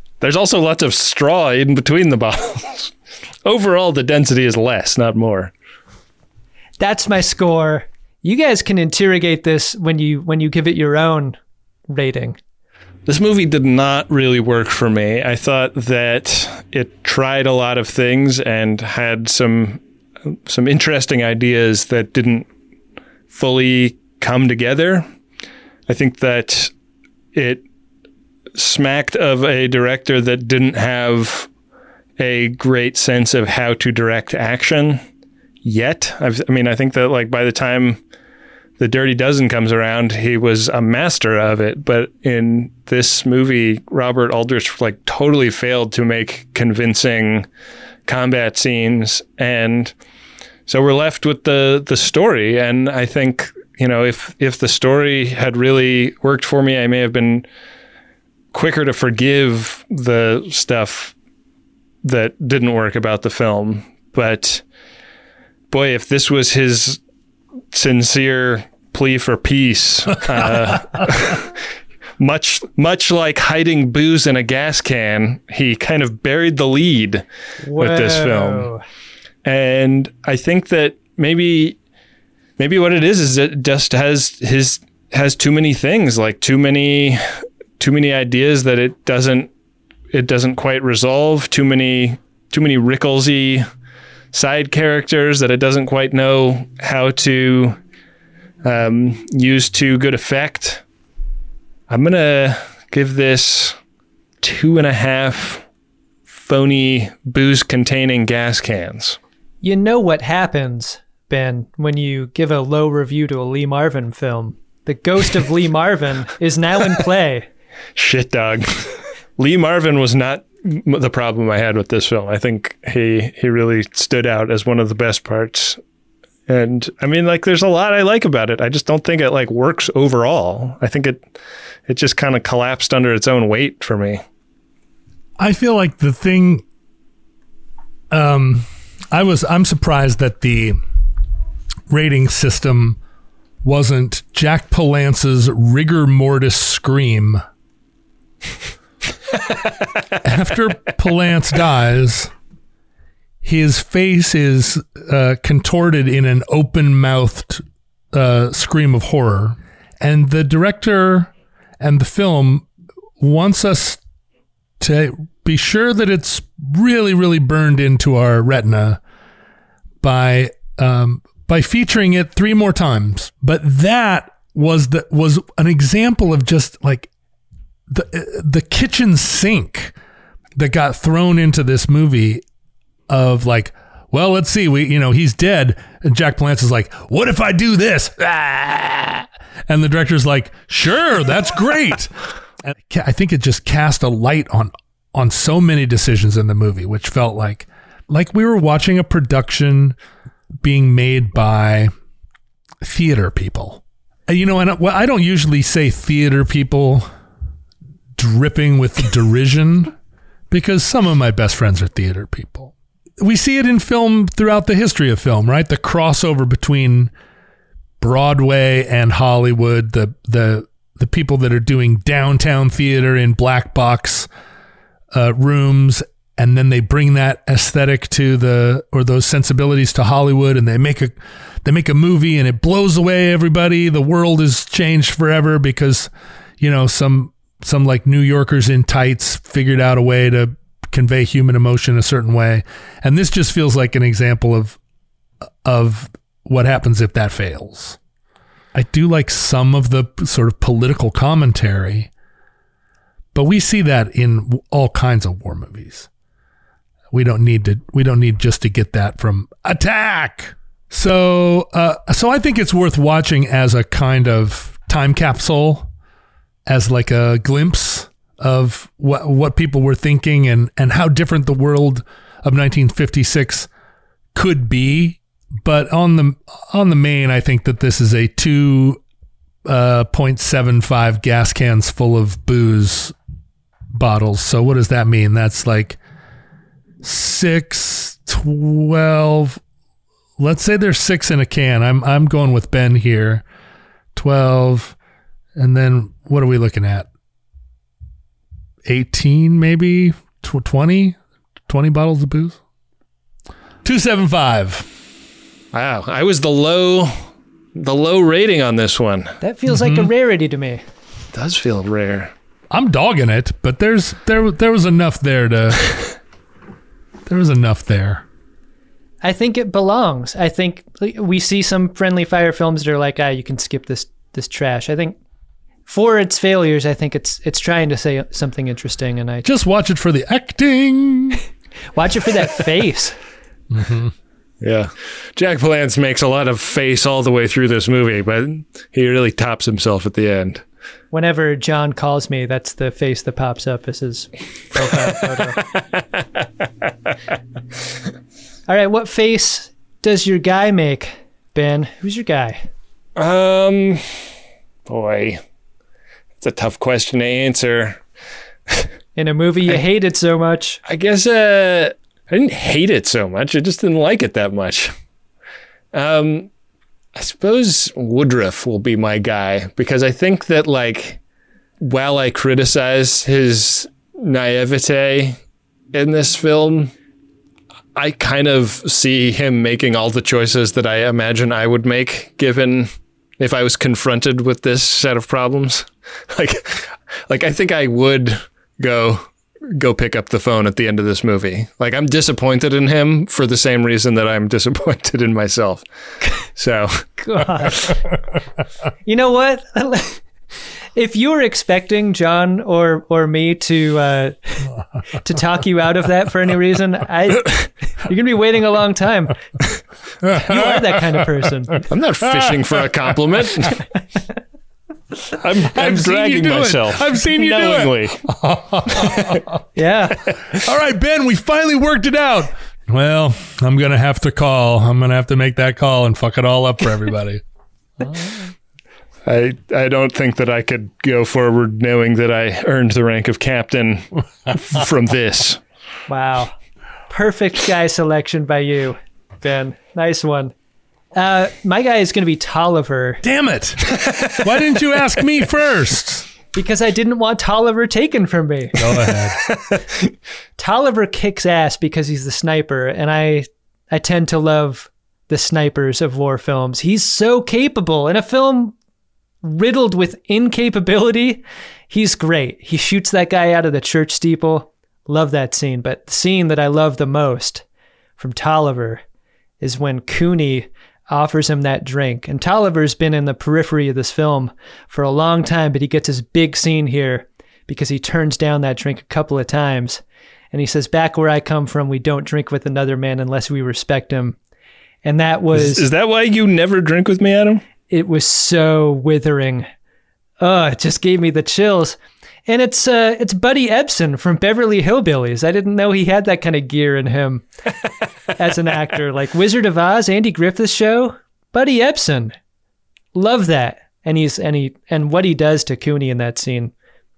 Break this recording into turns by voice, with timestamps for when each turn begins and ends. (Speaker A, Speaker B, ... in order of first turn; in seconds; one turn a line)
Speaker A: 0.2-2.9
Speaker A: 3.5-5.5
Speaker B: 6.8-11.4
Speaker B: 11.9-12.4
Speaker A: 13.1-19.8
Speaker A: 20.3-22.5
Speaker A: 23.3-25.1
Speaker A: 25.9-26.7
Speaker A: 27.3-27.6
Speaker A: 28.6-31.5
Speaker A: 32.2-35.0
Speaker A: 35.6-38.0
Speaker A: 38.8-47.5
Speaker A: 48.1-49.9
Speaker A: 50.7-57.5
Speaker A: 58.5-61.1
Speaker A: 62.0-64.6
Speaker A: 65.7-67.0
Speaker A: 67.7-71.6
Speaker A: 72.2-77.2
Speaker B: 77.6-78.8
Speaker A: 77.8-78.7
Speaker A: 79.5-81.8
Speaker A: 82.6-87.2
Speaker A: 87.8-89.5
Speaker A: 90.1-93.7
Speaker A: 94.3-97.8
Speaker A: 98.6-100.8
Speaker A: 101.9-103.8
Speaker A: 104.4-105.7
Speaker A: 106.3-109.2
Speaker B: 109.6-117.5
Speaker A: 118.0-125.8
Speaker A: 126.5-131.3
Speaker A: 131.9-134.2
Speaker C: 135.4-136.6
Speaker C: 138.1-140.8
Speaker C: 141.9-143.0
Speaker C: 143.6-147.4
Speaker C: 150.2-152.3
Speaker C: 153.4-162.7
Speaker C: 163.2-164.0
Speaker C: 164.8-169.0
Speaker C: 170.0-177.1
Speaker C: 177.9-179.9
Speaker C: 180.6-182.4
Speaker C: 183.1-200.0
Speaker C: 200.6-201.9
Speaker C: 202.8-207.1
Speaker C: 208.2-209.9
Speaker C: 210.5-217.1
Speaker C: 218.0-224.3
Speaker C: 225.1-244.8
Speaker C: 245.6-248.0
Speaker C: 248.7-252.1
Speaker C: 253.3-256.1
Speaker C: 257.1-265.9
Speaker C: 266.7-273.7
Speaker C: 274.3-279.0
Speaker C: 279.7-283.1
Speaker C: 283.9-286.0
Speaker C: 287.0-289.6
Speaker C: 290.4-293.4
Speaker C: 294.1-295.0
Speaker C: 295.6-297.1
Speaker C: 298.9-302.6
Speaker C: 303.8-304.9
Speaker A: 305.7-309.4
Speaker B: 309.4-310.8
Speaker C: 309.7-310.1
Speaker A: 311.3-312.3
Speaker C: 312.7-316.0
Speaker C: 317.3-318.2
Speaker B: 319.2-325.2
Speaker B: 325.9-329.5
Speaker C: 329.4-331.4
Speaker B: 331.9-333.1
Speaker C: 333.7-334.1
Speaker A: 334.6-340.6
Speaker B: 341.1-345.6
Speaker A: 345.6-346.5
Speaker B: 348.7-352.6
Speaker A: 353.2-354.3
Speaker A: 354.9-355.4
Speaker A: 356.4-358.0
Speaker B: 359.2-360.8
Speaker A: 360.9-364.9
Speaker A: 365.9-366.5
Speaker A: 367.2-371.2
Speaker A: 371.8-375.4
Speaker A: 375.9-376.9
Speaker A: 378.0-395.8
Speaker A: 396.6-397.1
Speaker B: 397.2-397.9
Speaker B: 399.1-400.2
Speaker B: 401.0-404.4
Speaker B: 405.1-409.4
Speaker C: 410.2-411.5
Speaker B: 410.3-411.9
Speaker A: 411.9-413.8
Speaker C: 412.2-412.8
Speaker A: 415.4-418.2
Speaker C: 415.7-419.5
Speaker A: 418.9-419.4
Speaker B: 419.8-420.3
Speaker C: 420.5-427.4
Speaker A: 429.2-435.6
Speaker B: 436.1-436.5
Speaker B: 437.1-440.5
Speaker B: 441.1-443.2
Speaker C: 443.2-446.3
Speaker A: 443.9-444.4
Speaker B: 446.5-448.8
Speaker C: 448.8-449.4
Speaker B: 450.6-458.8
Speaker B: 459.4-467.6
Speaker B: 468.2-469.0
Speaker B: 469.6-484.4
Speaker B: 485.0-485.9
Speaker A: 485.5-487.6
Speaker B: 487.9-489.7
Speaker B: 490.4-497.5
Speaker B: 498.4-502.4
Speaker B: 503.1-506.7